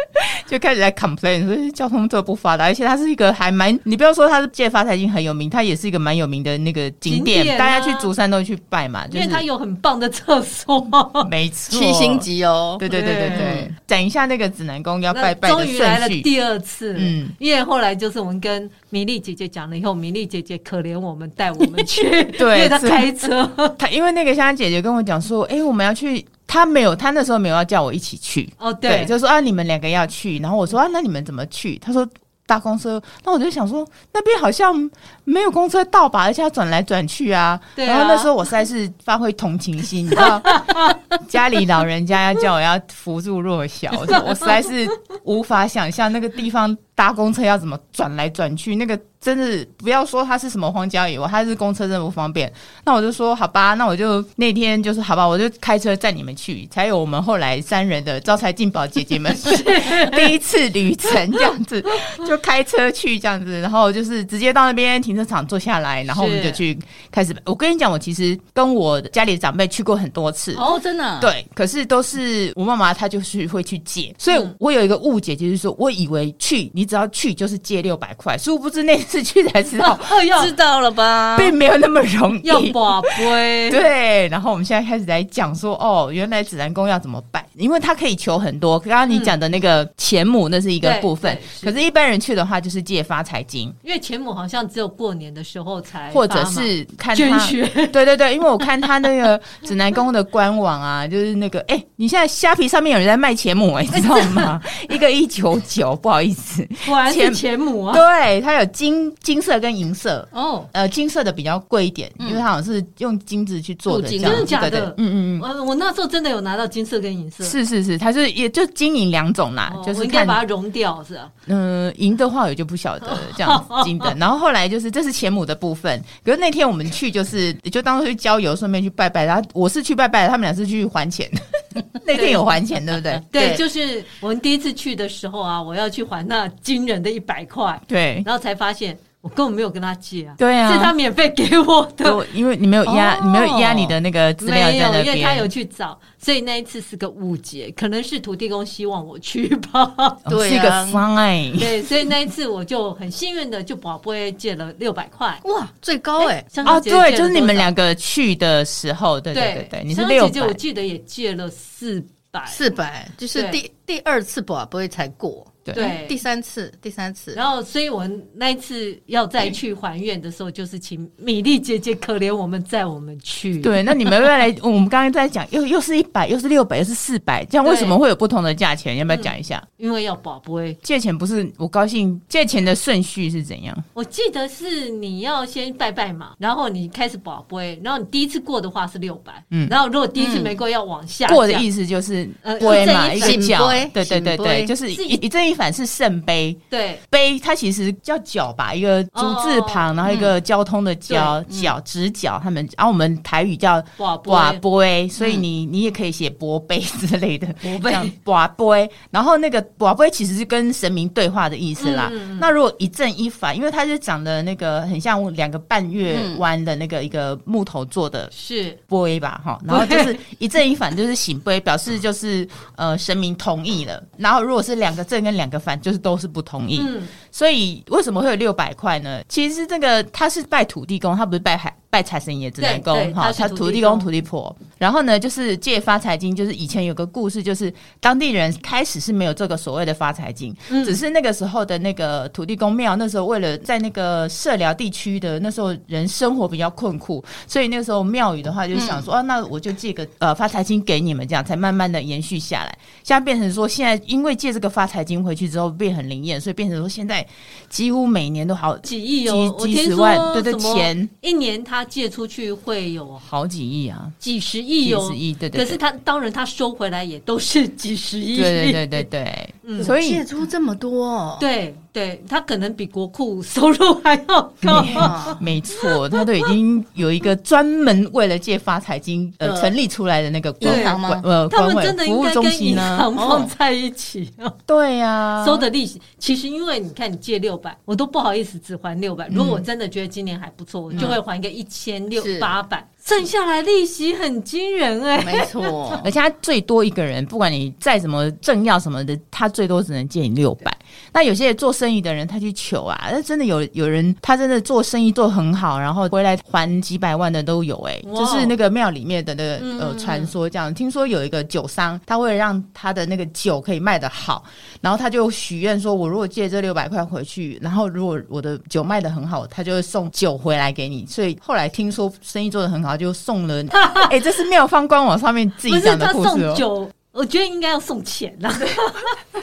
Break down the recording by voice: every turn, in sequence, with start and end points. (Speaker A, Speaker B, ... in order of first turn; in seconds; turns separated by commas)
Speaker A: 0.2-9.4, Speaker B: 7.0-8.1, Speaker B: 9.1-11.3, Speaker A: 11.2-16.3, Speaker C: 11.7-13.7, Speaker B: 12.8-13.7, Speaker B: 15.1-23.8, Speaker A: 16.9-17.3, Speaker A: 22.4-23.1, Speaker A: 23.8-70.6, Speaker B: 28.6-29.1, Speaker B: 37.8-38.3, Speaker B: 40.2-40.9, Speaker B: 44.1-44.5, Speaker B: 59.3-60.3, Speaker B: 66.1-66.6, Speaker C: 70.5-71.3, Speaker A: 71.2-80.2, Speaker B: 79.8-80.5, Speaker C: 80.3-81.5, Speaker A: 81.3-93.8, Speaker B: 82.4-83.8, Speaker B: 89.1-89.3, Speaker B: 90.8-91.8, Speaker B: 93.8-98.0, Speaker A: 96.1-115.5, Speaker B: 103.9-104.5, Speaker B: 106.8-108.0, Speaker C: 110.3-110.7, Speaker C: 113.9-114.5, Speaker B: 114.2-117.5, Speaker A: 117.4-120.4, Speaker B: 119.7-121.3, Speaker A: 121.5-133.2, Speaker B: 123.0-124.1, Speaker B: 132.1-132.4, Speaker C: 133.2-133.6, Speaker B: 133.3-142.2, Speaker A: 137.9-138.3, Speaker A: 140.4-140.9, Speaker A: 142.0-145.5, Speaker C: 142.8-143.9, Speaker B: 144.4-150.2, Speaker A: 150.2-151.7, Speaker C: 150.3-151.0, Speaker B: 151.6-155.4, Speaker C: 155.4-156.5, Speaker B: 156.2-157.7, Speaker A: 156.6-160.6, Speaker B: 159.3-162.6, Speaker C: 162.5-167.4, Speaker B: 163.3-163.6, Speaker B: 165.7-166.2, Speaker B: 167.3-174.0, Speaker A: 173.6-179.6, Speaker B: 177.6-178.0, Speaker B: 179.1-180.8, Speaker A: 180.8-183.8, Speaker B: 183.9-191.7, Speaker C: 190.1-190.6, Speaker A: 191.3-218.3, Speaker B: 192.4-193.5, Speaker C: 192.6-194.7, Speaker B: 194.9-195.2, Speaker B: 196.7-197.0, Speaker B: 199.1-200.0, Speaker C: 200.0-200.3, Speaker B: 201.1-201.3, Speaker C: 201.5-201.7, Speaker B: 204.0-204.6, Speaker B: 207.6-208.1, Speaker B: 211.8-212.5, Speaker C: 216.1-216.4, Speaker B: 218.3-218.8, Speaker A: 218.9-261.1, Speaker B: 219.7-220.2, Speaker B: 226.8-227.1, Speaker B: 232.6-234.1, Speaker B: 240.7-241.0, Speaker C: 248.7-249.0, Speaker B: 258.8-263.2, Speaker A: 263.2-264.1, Speaker B: 264.2-269.0, Speaker A: 264.8-265.8, Speaker A: 268.3-270.2, Speaker B: 269.6-269.9, Speaker C: 269.8-271.4, Speaker B: 271.4-276.5, Speaker A: 274.6-283.1, Speaker C: 274.8-275.4, Speaker C: 279.4-279.7, Speaker C: 280.6-281.2, Speaker B: 280.6-284.6, Speaker C: 283.1-283.5, Speaker A: 284.7-285.7, Speaker B: 285.4-296.0, Speaker A: 289.3-289.6, Speaker A: 290.9-291.2, Speaker C: 292.1-292.5, Speaker C: 295.2-296.0, Speaker A: 296.0-326.6, Speaker B: 308.0-308.6, Speaker B: 309.6-310.3, Speaker B: 323.7-324.1, Speaker B: 325.6-329.2